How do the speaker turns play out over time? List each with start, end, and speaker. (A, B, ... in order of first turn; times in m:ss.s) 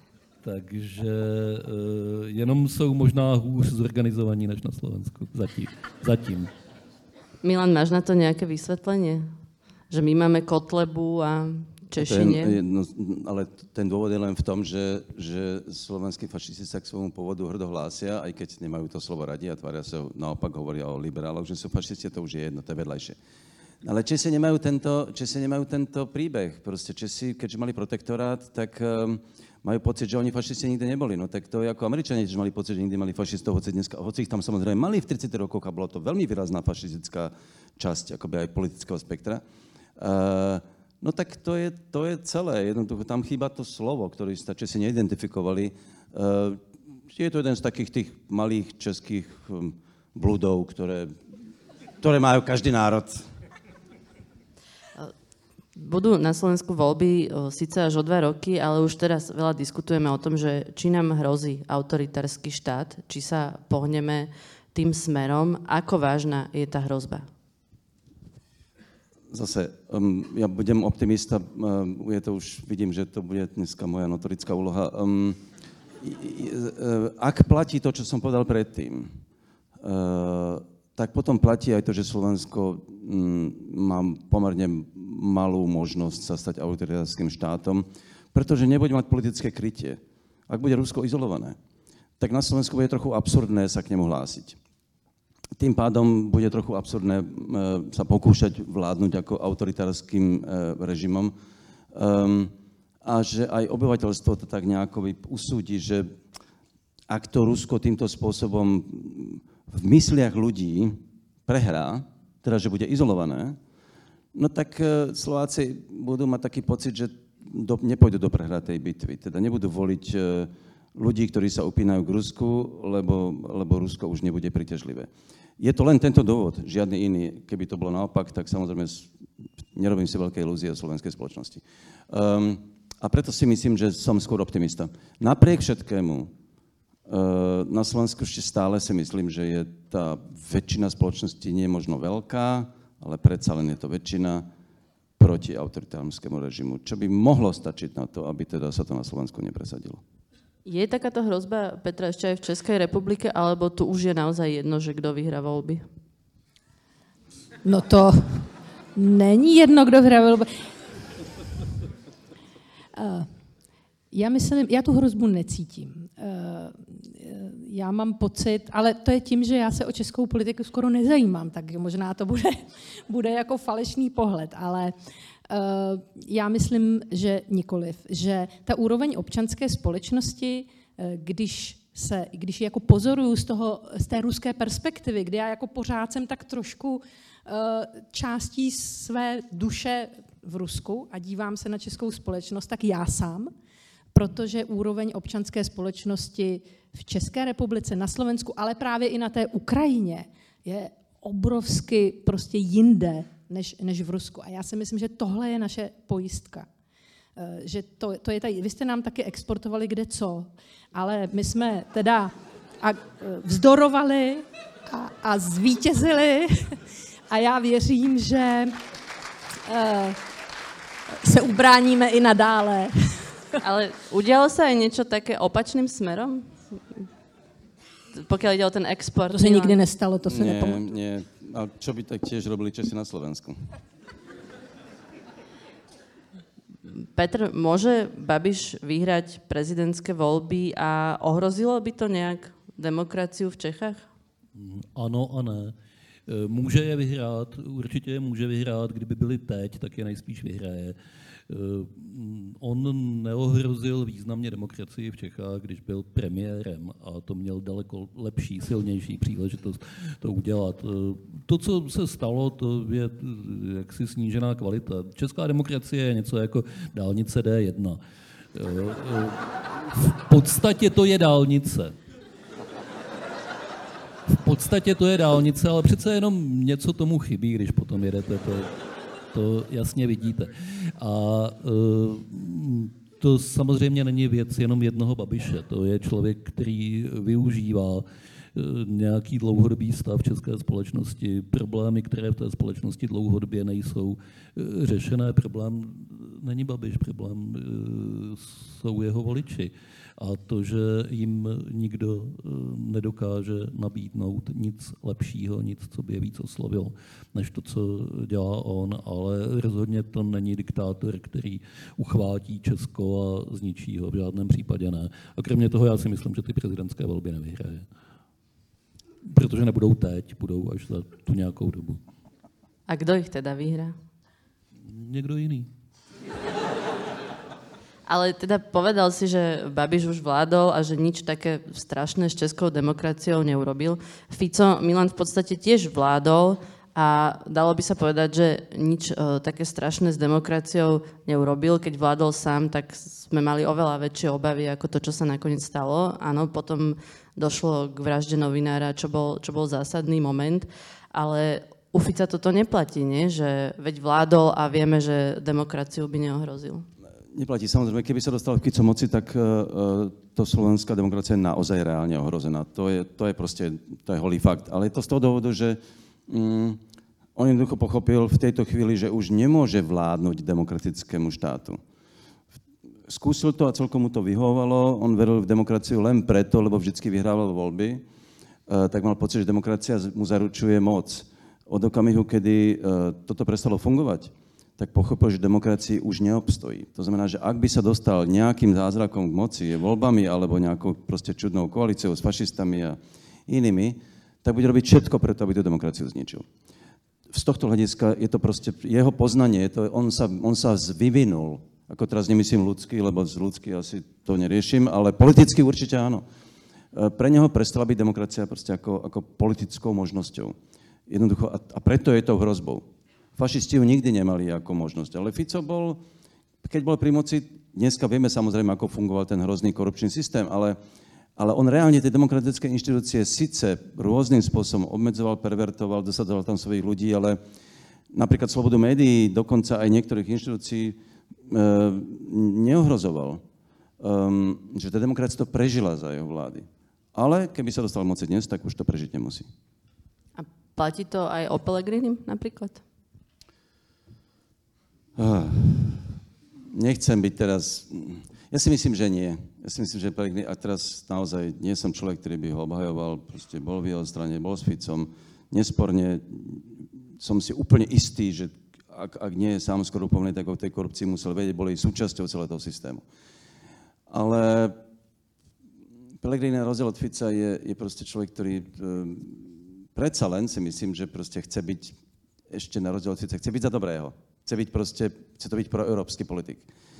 0:00.4-0:06.5 A
0:07.4-0:09.3 B
0:09.9-0:12.6 B
0:12.0-0:23.2 C
0:23.8-0:39.4 C
0:40.0-0:46.6 C
0:47.1-0:51.1 C
0:52.0-0:53.2 C
0:55.8-1:07.3 B
1:09.3-1:15.4 C
1:16.0-1:19.1 C
1:19.8-1:31.6 C
1:32.2-1:34.6 C
1:35.6-1:41.3 C
1:41.9-1:42.5 C
1:43.0-1:46.1 C
1:47.1-1:53.6 C
1:54.3-2:09.1 C
2:09.7-2:16.3 C
2:17.1-2:24.4 C
2:25.2-2:30.0 C
2:30.6-2:35.8 B
2:37.6-2:40.5 D
2:43.0-2:43.3 D
2:44.1-2:54.9 D
2:55.5-3:13.5 D
3:14.1-3:26.7 D
3:27.4-3:36.8 D
3:37.3-3:38.8 D
3:39.6-3:40.2 D
3:41.2-3:43.6 D
3:43.6-3:47.1 B
3:48.1-3:49.8 B
3:49.3-3:50.8 D
3:50.3-3:53.8 C
3:56.9-4:04.0 B
4:04.6-4:05.7 A
4:06.3-4:11.0 A
4:11.5-4:28.0 A
4:28.5-4:32.0 A
4:34.3-4:38.7 A
4:39.3-5:17.8 A
5:19.3-5:22.0 A
5:22.9-5:24.0 B
5:24.8-5:25.7 A
5:28.1-5:56.9 B
5:57.3-6:06.8 C
6:07.4-6:11.8 C
6:13.1-6:18.0 C
6:18.7-6:36.4 C
6:37.3-6:46.2 C
6:46.9-6:50.6 C
6:51.1-6:52.8 C
6:53.4-6:56.0 C
6:56.6-7:00.8 C
7:01.4-7:07.4 C
7:08.1-7:11.0 C
7:11.5-7:13.4 C
7:14.0-7:19.5 C
7:20.4-7:22.8 B
7:25.2-7:26.1 C
7:26.7-7:43.0 C
7:44.1-7:44.8 C
7:46.2-7:52.0 C
7:52.5-7:56.7 C